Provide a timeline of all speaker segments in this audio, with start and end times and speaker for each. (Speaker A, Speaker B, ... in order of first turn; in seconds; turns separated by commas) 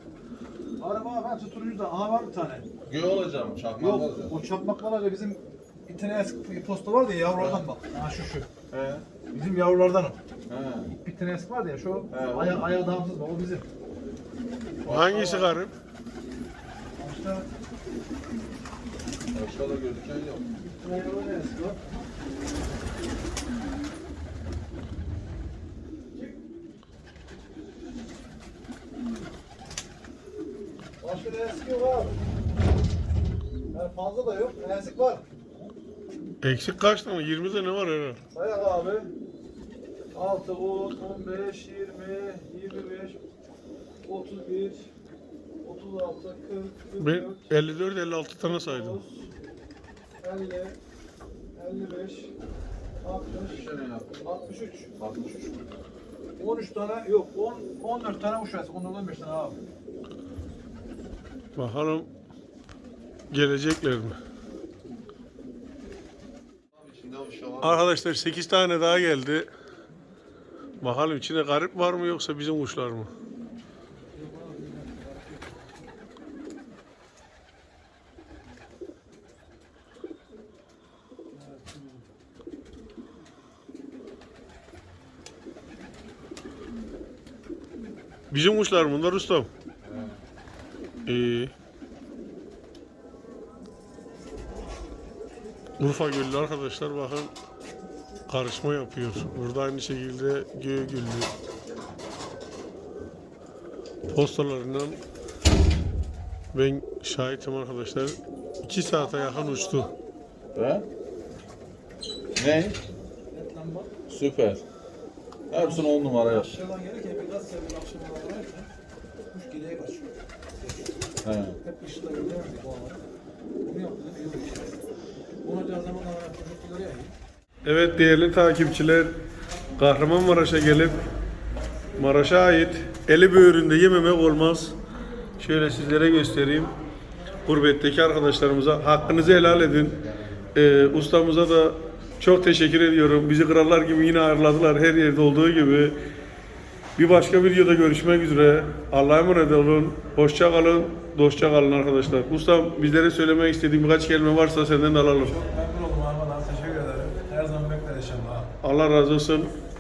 Speaker A: 0.8-2.7, Speaker B: 2.9-4.4, Speaker A: 3.8-8.5, Speaker B: 7.3-7.7, Speaker B: 8.7-9.1, Speaker A: 9.3-10.2, Speaker B: 10.5-10.9, Speaker A: 11.0-13.7, Speaker B: 12.1-12.7, Speaker B: 14.8-15.4, Speaker C: 14.9-15.7, Speaker A: 15.0-15.4, Speaker A: 17.0-17.5, Speaker B: 19.3-20.4, Speaker A: 20.6-22.1, Speaker A: 26.1-26.4, Speaker A: 31.0-32.2, Speaker A: 33.7-35.7, Speaker C: 36.4-38.2, Speaker A: 38.3-39.1, Speaker A: 40.1-43.2, Speaker A: 44.0-44.9, Speaker A: 45.6-47.5, Speaker C: 47.0-49.0, Speaker A: 48.4-49.3, Speaker A: 50.2-50.8, Speaker A: 51.5-52.3, Speaker A: 53.0-53.6, Speaker B: 53.3-54.1, Speaker A: 54.2-54.9, Speaker B: 55.0-55.6, Speaker A: 56.4-59.6, Speaker C: 61.5-62.1, Speaker C: 63.3-64.2, Speaker B: 66.7-68.0, Speaker C: 67.6-69.5, Speaker C: 70.8-73.1, Speaker A: 73.9-75.9, Speaker A: 81.3-82.1, Speaker C: 88.3-89.5, Speaker B: 89.8-90.2, Speaker C: 91.0-91.5, Speaker C: 95.8-97.3, Speaker C: 98.3-101.3, Speaker C: 104.1-105.0, Speaker C: 106.5-109.9, Speaker A: 108.8-109.9, Speaker B: 110.5-110.8, Speaker B: 112.4-112.8, Speaker A: 113.3-113.9, Speaker B: 114.1-114.6, Speaker B: 115.5-116.5, Speaker A: 115.5-118.7, Speaker A: 119.3-121.1, Speaker B: 121.2-121.6, Speaker A: 121.6-123.0, Speaker A: 123.6-124.8, Speaker A: 125.4-127.1, Speaker C: 127.6-129.1, Speaker C: 129.8-131.0, Speaker C: 131.9-134.8, Speaker C: 135.4-136.7, Speaker A: 137.1-137.8, Speaker C: 137.4-140.0, Speaker C: 140.5-146.0, Speaker C: 147.0-155.4, Speaker A: 155.2-158.5, Speaker C: 158.6-159.5